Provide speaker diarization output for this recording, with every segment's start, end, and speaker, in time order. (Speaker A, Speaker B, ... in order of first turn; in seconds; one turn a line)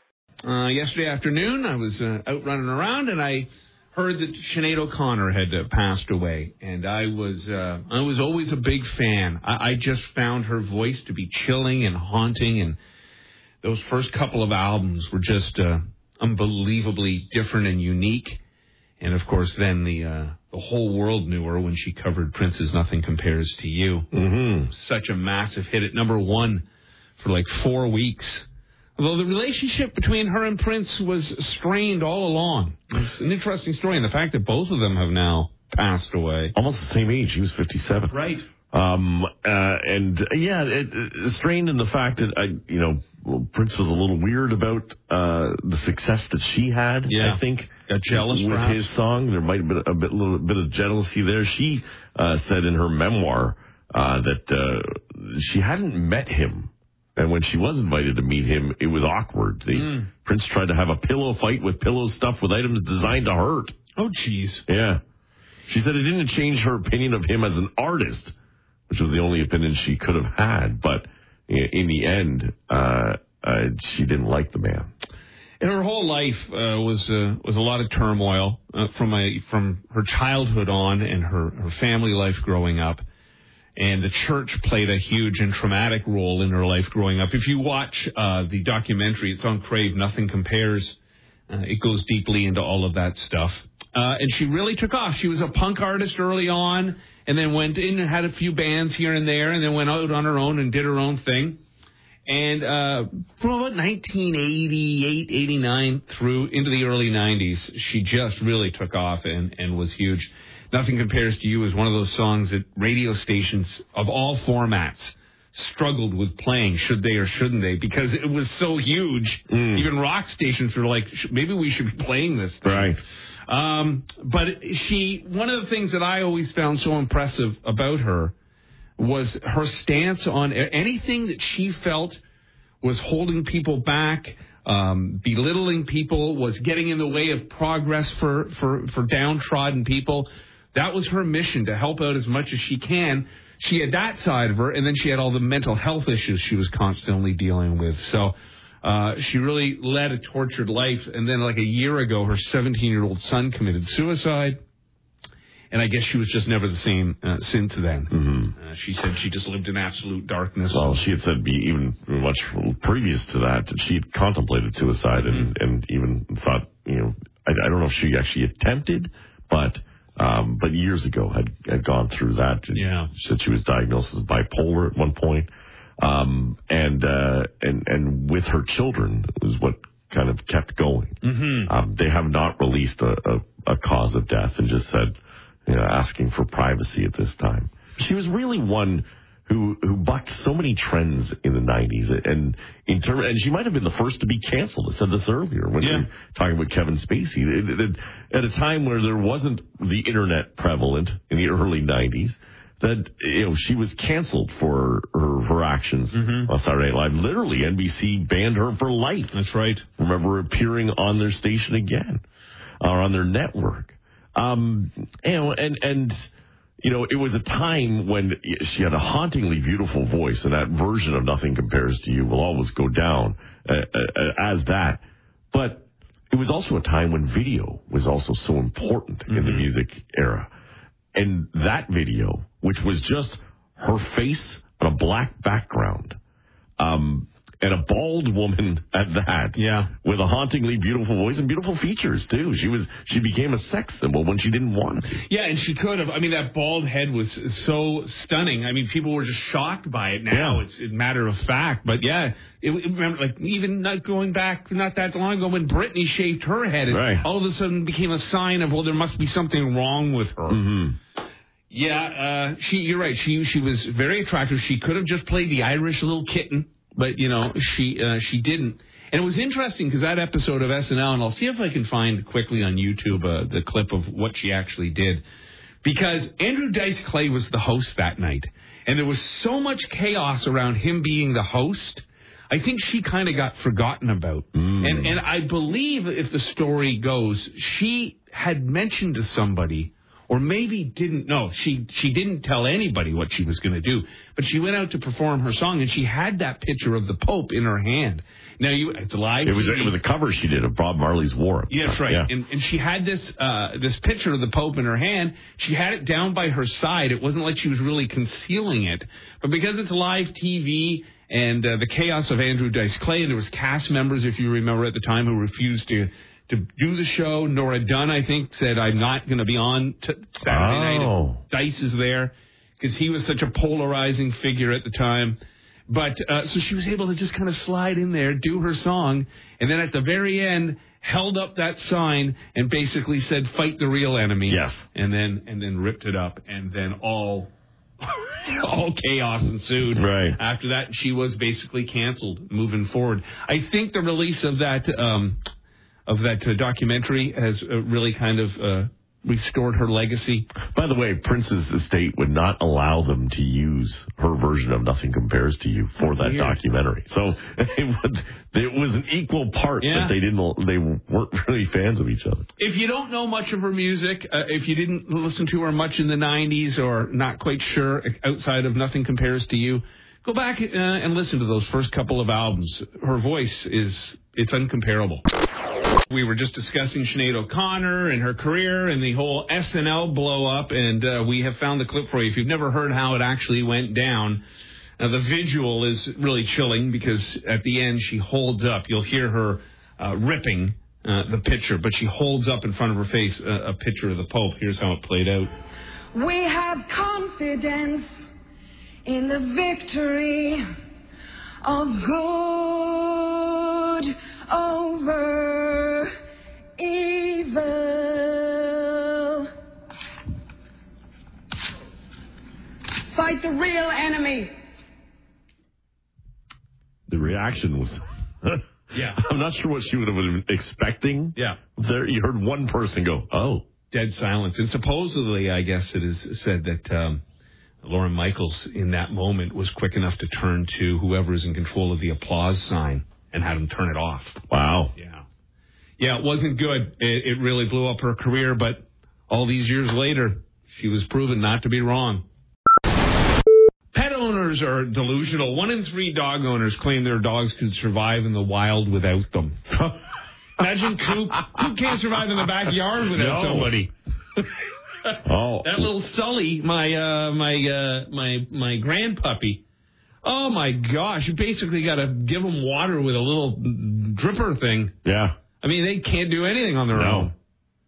Speaker A: 0.4-12.8
Speaker A: 13.6-18.4
Speaker A: 19.0-24.1
Speaker B: 24.1-24.7
Speaker A: 24.7-26.6
Speaker A: 27.2-28.4
Speaker A: 29.0-36.5
Speaker B: 36.5-38.1
Speaker A: 38.1-38.5
Speaker B: 38.7-63.8
Speaker A: 47.1-48.9
Speaker A: 59.7-60.1
Speaker A: 64.0-64.6
Speaker B: 64.7-65.0
Speaker B: 65.7-68.3
Speaker B: 68.9-74.9
Speaker A: 75.6-83.0
Speaker A: 83.8-91.0
Speaker A: 91.5-101.6
Speaker A: 102.2-128.3
Speaker B: 119.5-119.9
Speaker B: 122.6-123.0
Speaker A: 129.0-132.2
Speaker A: 132.8-154.6
Speaker A: 155.7-161.0
Speaker B: 158.1-158.5
Speaker B: 160.7-185.1
Speaker A: 165.2-165.5
Speaker A: 172.7-173.1
Speaker A: 181.2-181.7
Speaker B: 185.7-209.3
Speaker A: 195.8-196.1
Speaker A: 206.1-206.5
Speaker A: 209.3-209.8
Speaker B: 210.0-212.2
Speaker B: 212.8-216.2
Speaker B: 216.8-230.5
Speaker A: 229.3-229.7
Speaker B: 231.1-236.2
Speaker B: 236.8-245.2
Speaker A: 239.6-239.9
Speaker A: 245.2-260.6
Speaker B: 250.3-250.6
Speaker B: 256.9-257.2
Speaker B: 260.5-261.0
Speaker A: 261.7-275.2
Speaker A: 275.8-300.0
Speaker B: 284.5-285.1
Speaker B: 299.4-302.3
Speaker A: 301.7-325.4
Speaker B: 320.4-321.4
Speaker A: 325.9-337.5
Speaker B: 334.5-334.8
Speaker A: 338.0-345.4
Speaker B: 339.9-340.4
Speaker A: 346.1-350.5
Speaker B: 350.6-362.5
Speaker A: 356.1-356.6
Speaker A: 359.8-360.1
Speaker A: 362.6-375.2
Speaker A: 376.1-384.4
Speaker A: 385.0-395.5
Speaker C: 396.1-398.3
Speaker C: 399.1-400.6
Speaker C: 401.6-406.1
Speaker C: 406.8-409.5
Speaker C: 413.1-414.5
Speaker B: 417.1-418.6
Speaker A: 418.9-419.2
Speaker B: 419.2-423.6
Speaker A: 423.9-427.2
Speaker A: 427.8-434.4
Speaker B: 434.5-434.9
Speaker A: 434.9-435.2
Speaker A: 436.0-442.2
Speaker A: 443.9-449.8
Speaker A: 450.6-454.5
Speaker B: 453.1-453.7
Speaker A: 455.1-459.6
Speaker B: 455.2-455.9
Speaker A: 460.2-464.9
Speaker B: 465.0-465.4
Speaker A: 465.6-467.3
Speaker B: 466.9-467.3